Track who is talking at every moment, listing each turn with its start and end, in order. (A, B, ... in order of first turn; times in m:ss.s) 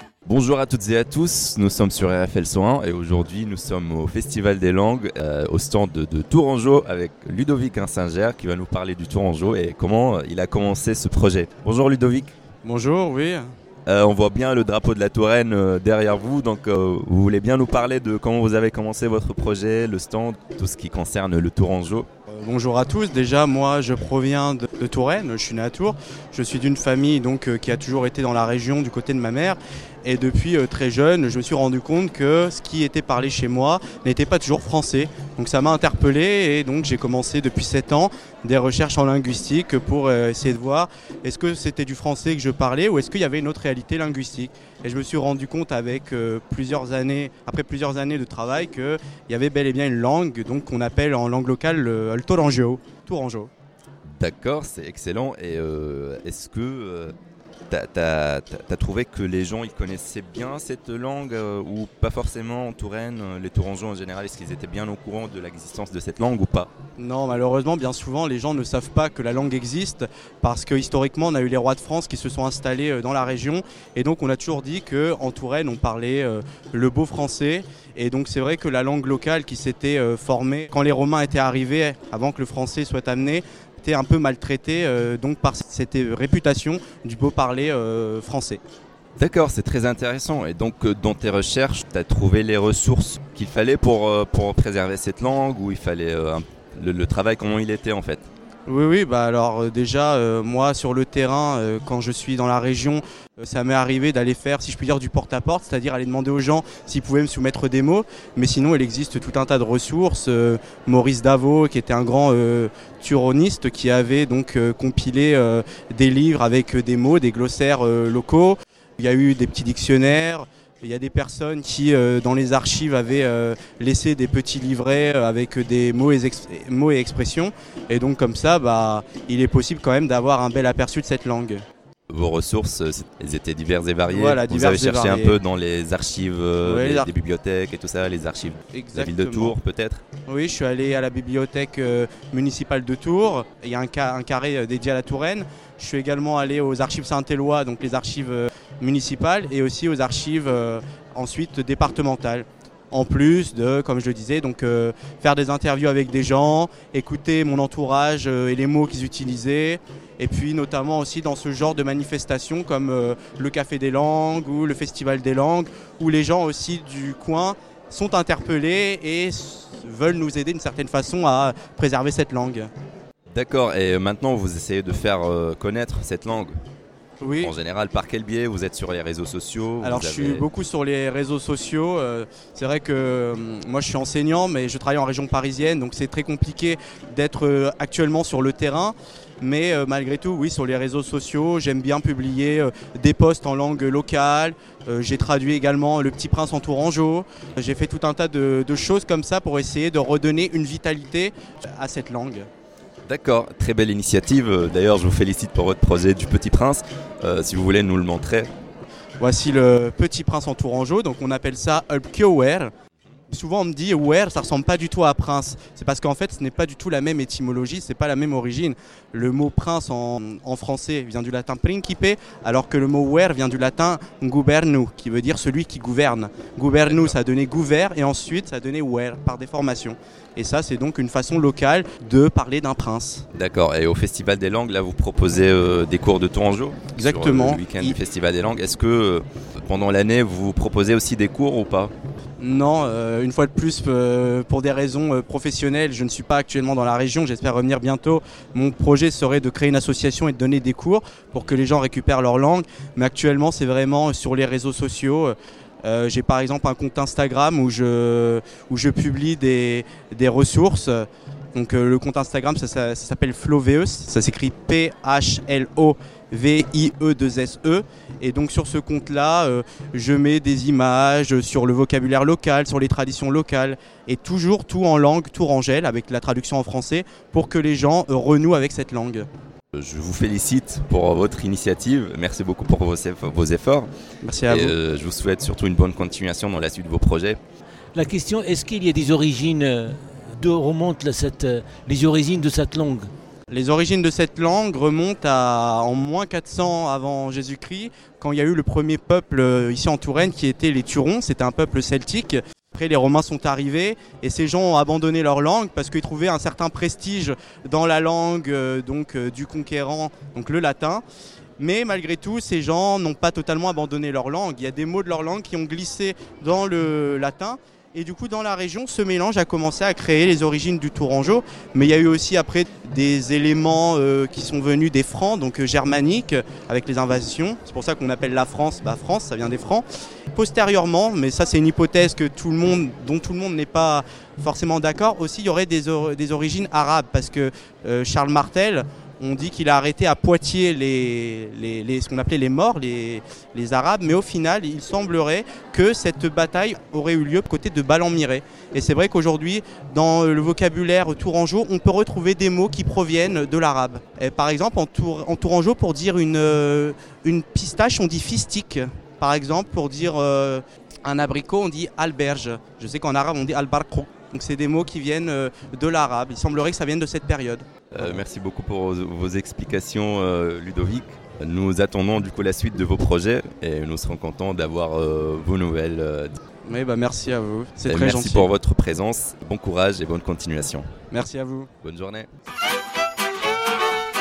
0:00.2-0:12.3 A
0:12.6-0:13.5 B
0:13.9-0:22.1 A
0:22.3-0:53.5 B
0:54.1-0:57.2 A
0:57.7-1:06.7 A
1:07.0-1:28.6 B
1:29.2-1:38.3 A
1:38.7-2:11.6 B
2:12.1-2:20.0 A
2:14.1-2:15.4 B
2:16.6-2:17.1 B
2:18.7-2:19.6 B
2:20.3-2:52.7 B
2:53.3-2:56.6 A
2:57.2-2:57.5 B
2:57.4-3:00.5 A
2:59.8-3:22.5 B
3:23.1-3:28.5 A
3:29.2-3:32.7 B
3:33.3-3:53.2 B
3:46.9-3:47.1 A
3:53.3-4:01.9 A
3:57.0-3:58.0 B
4:02.4-4:39.3 B
4:39.7-4:43.9 A
4:44.2-4:44.8 B
4:44.5-4:47.4 A
4:47.9-4:53.1 C
4:53.5-5:11.0 B
5:11.6-6:08.1 B
6:07.9-6:16.4 A
6:16.7-6:18.5 B
6:17.9-6:20.9 A
6:21.1-6:21.7 B
6:21.8-6:22.3 A